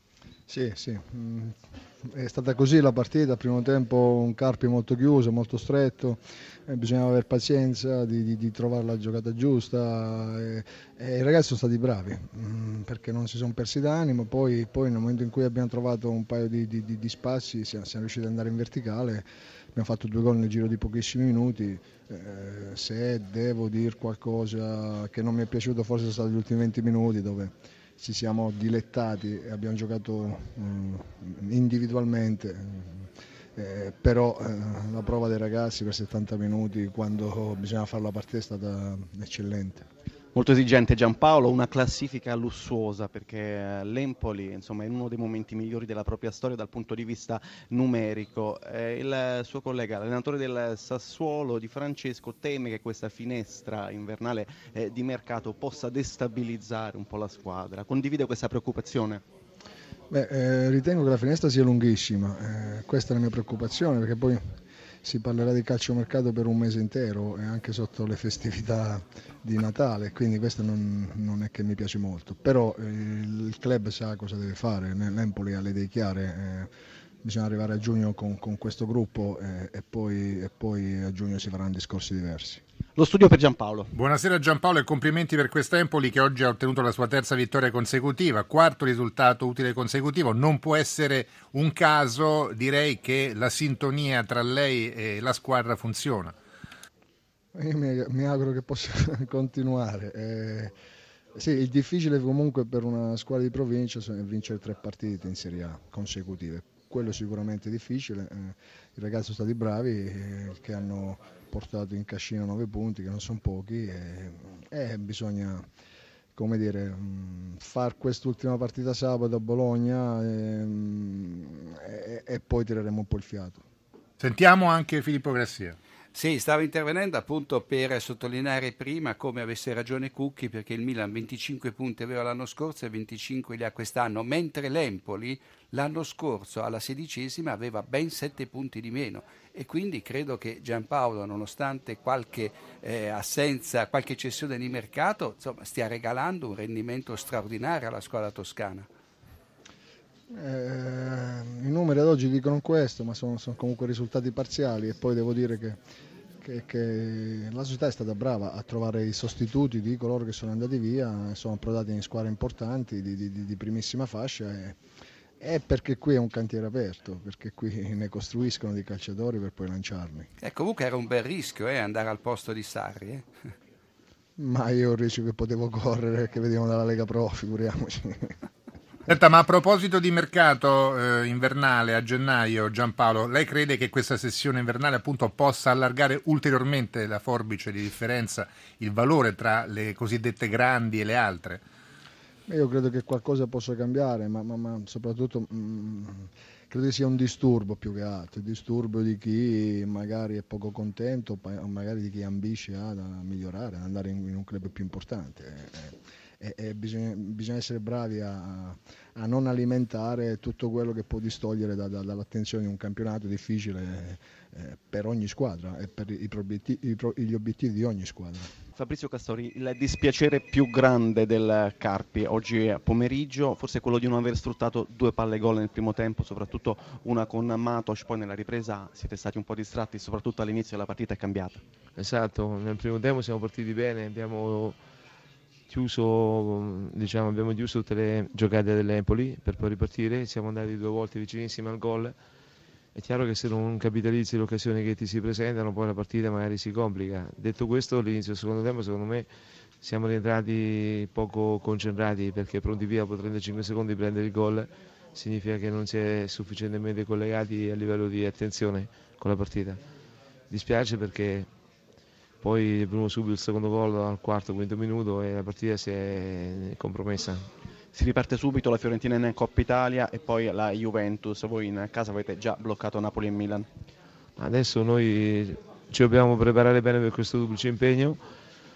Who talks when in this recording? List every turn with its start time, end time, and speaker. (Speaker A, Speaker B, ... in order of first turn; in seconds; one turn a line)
Speaker A: 0.5-1.5
Speaker A: 2.0-39.9
Speaker B: 40.3-59.2
Speaker A: 60.1-64.4
Speaker A: 65.0-76.7
Speaker A: 77.2-82.6
Speaker B: 83.0-83.9
Speaker C: 83.9-96.3
Speaker A: 97.5-100.7
Speaker A: 101.3-115.6
Speaker A: 116.3-123.6
Speaker C: 124.2-125.8
Speaker D: 126.1-148.9
Speaker A: 150.3-155.8
Speaker A: 156.4-164.8
Speaker A: 165.4-170.3
Speaker D: 170.4-173.2
Speaker A: 174.4-178.3
Speaker C: 179.1-191.6
Speaker A: 192.5-218.5
Speaker B: 218.8-231.6
Speaker E: 232.0-234.8
Speaker E: 235.7-242.2
Speaker E: 242.9-249.3
Speaker E: 249.8-259.8
Speaker E: 260.5-261.5
Speaker E: 262.4-267.4
Speaker B: 267.9-273.7
Speaker E: 274.4-278.2